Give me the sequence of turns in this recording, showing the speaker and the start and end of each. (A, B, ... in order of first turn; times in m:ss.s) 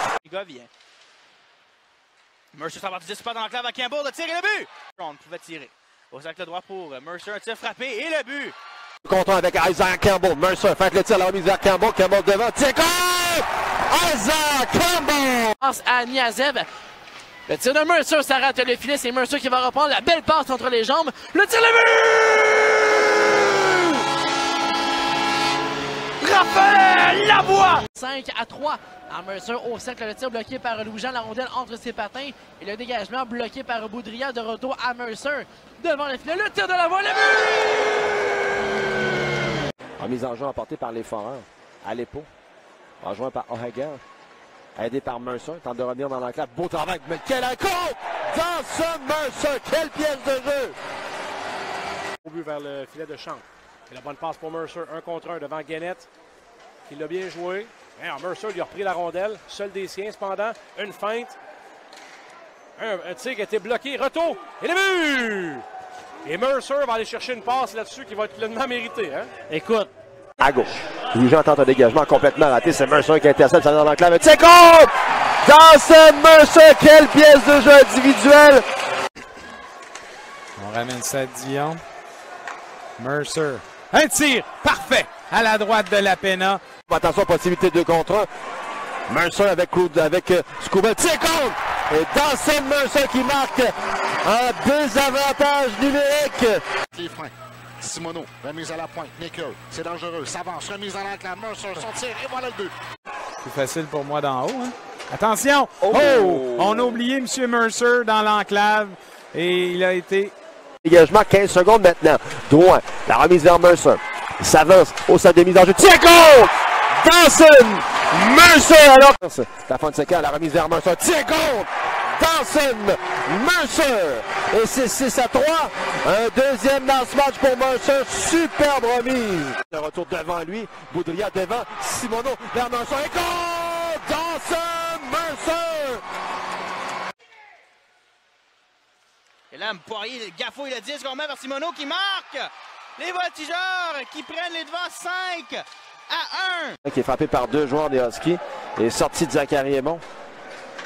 0:00.2-0:00.7 A
0:02.5-0:08.5 A
0:09.0-0:15.6 B
0:15.6-0:16.7 C
0:17.5-0:22.7 C
0:23.3-0:24.0 C
0:26.2-0:37.6 C
0:40.0-0:42.3 B
0:43.0-0:44.0 B
0:44.8-0:50.8 B
0:52.2-0:56.1 D
0:56.9-1:01.4 D
1:02.8-1:05.6 D
1:06.2-1:09.4 D
1:10.4-1:18.6 B
1:20.6-1:21.8 E
1:23.0-1:26.6 E
1:26.9-1:28.3 B
1:29.1-1:36.6 B
1:36.9-1:42.7 F
1:43.4-1:50.3 E
1:50.8-2:16.0 B
2:19.5-2:26.8 A
2:26.8-2:30.0 B